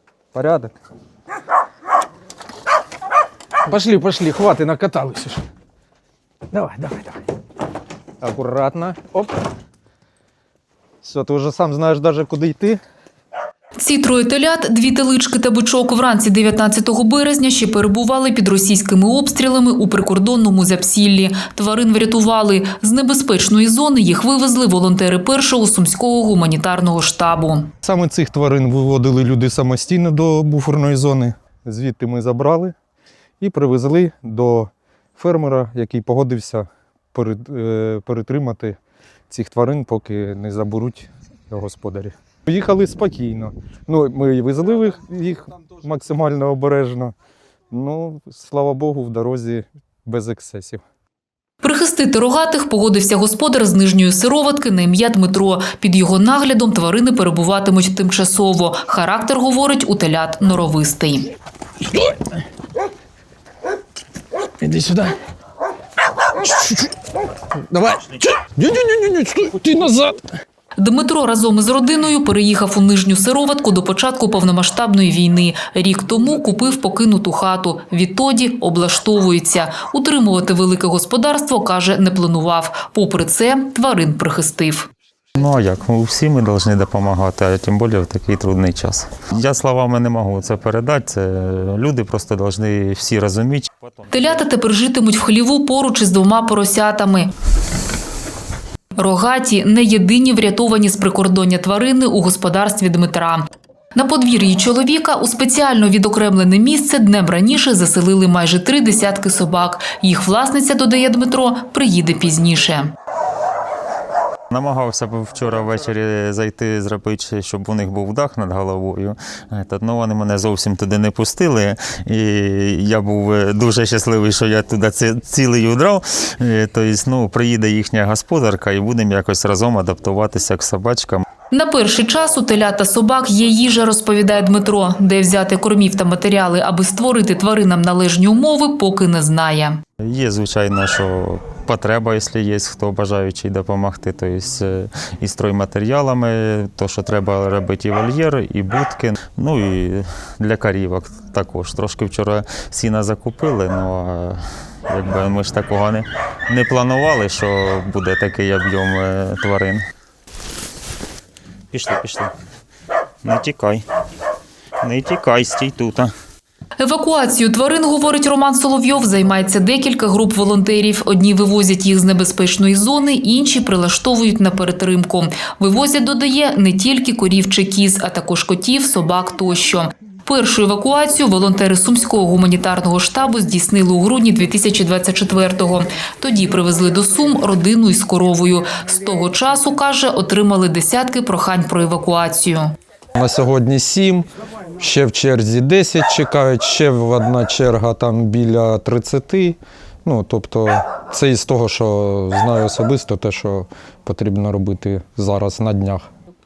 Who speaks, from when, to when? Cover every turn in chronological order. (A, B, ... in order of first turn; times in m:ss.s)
0:00.3-0:00.7 A
0:03.7-0:05.4 A
0:06.5-0:07.2 A
0:08.2-0:09.3 A
0:11.0-0:12.8 A
0:13.8-0:27.7 B
0:27.8-0:32.7 A
0:33.4-0:38.8 A
0:39.3-0:47.1 A
0:47.7-0:50.8 A
0:51.6-1:01.3 B
1:01.9-1:02.2 A
1:04.6-1:05.2 A
1:06.3-1:07.0 A
1:07.5-1:10.2 A
1:10.8-1:24.9 B
1:25.4-1:34.5 C
1:34.1-1:37.3 B
1:39.0-1:52.9 B
1:54.5-2:11.2 C
2:11.5-2:19.8 B
2:20.0-2:39.8 C
2:41.7-2:42.3 C
2:43.2-2:43.8 C
2:44.8-2:46.1 C
2:46.8-3:12.7 B
3:13.2-3:14.2 A
3:14.8-3:26.1 A